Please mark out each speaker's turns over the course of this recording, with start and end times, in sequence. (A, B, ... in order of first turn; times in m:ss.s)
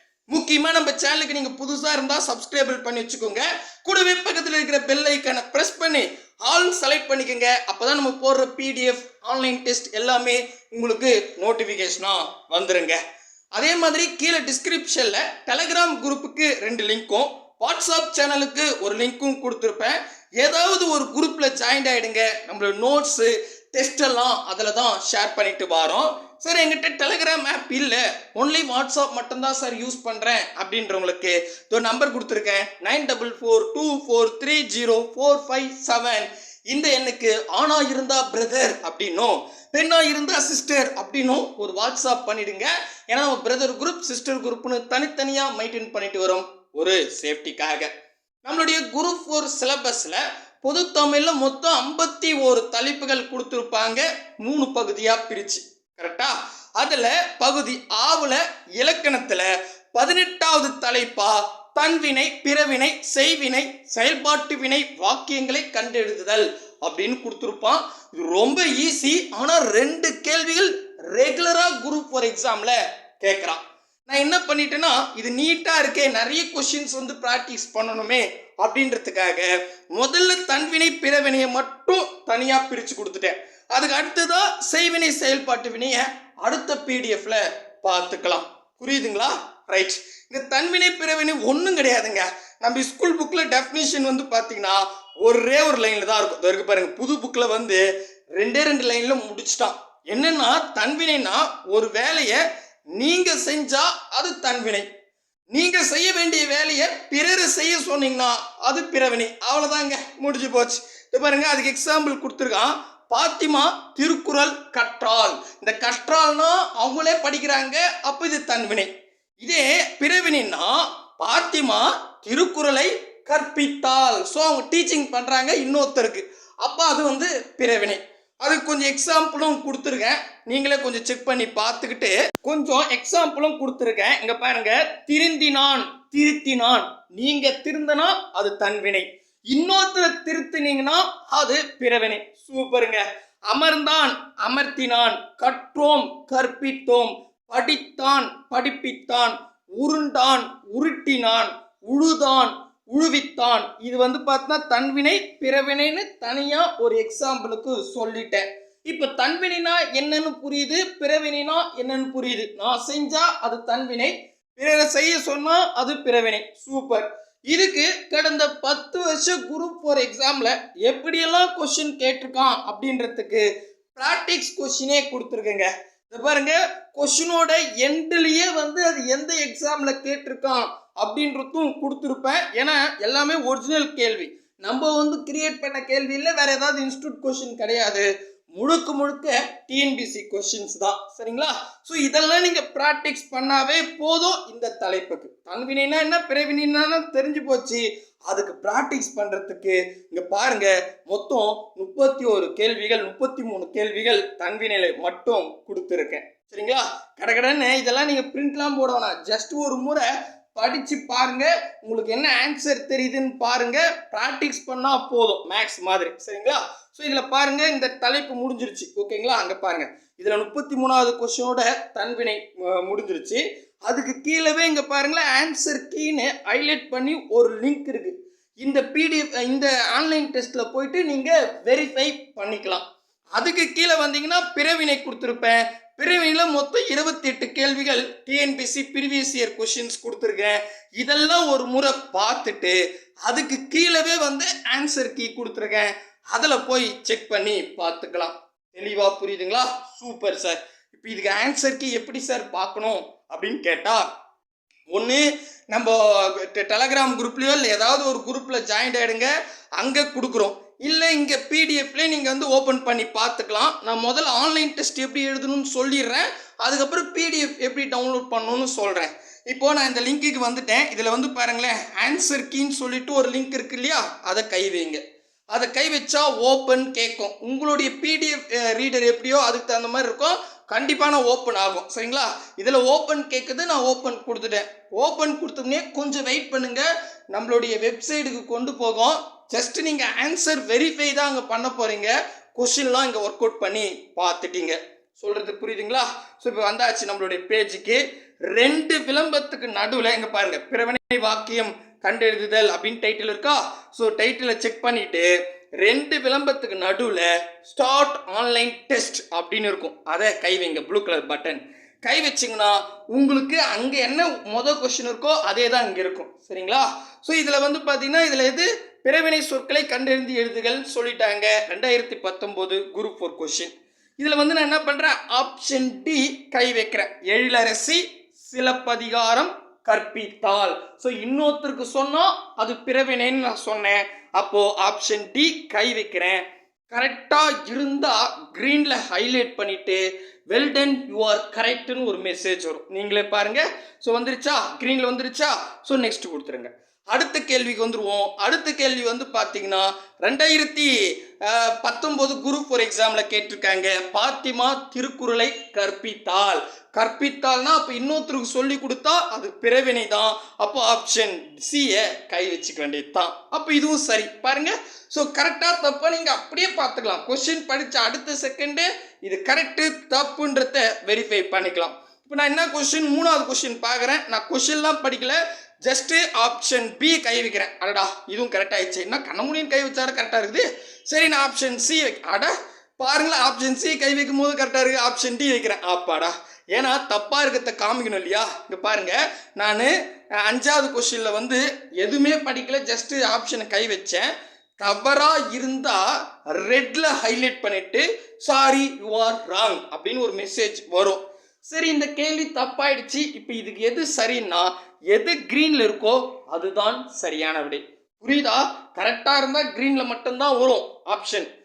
0:00.3-0:13.0 A
0:13.6-0:47.9 A
0:48.4-1:42.4 A
1:43.0-1:44.9 A
1:45.5-4:14.0 A
4:14.9-6:29.9 A
6:30.4-6:51.5 A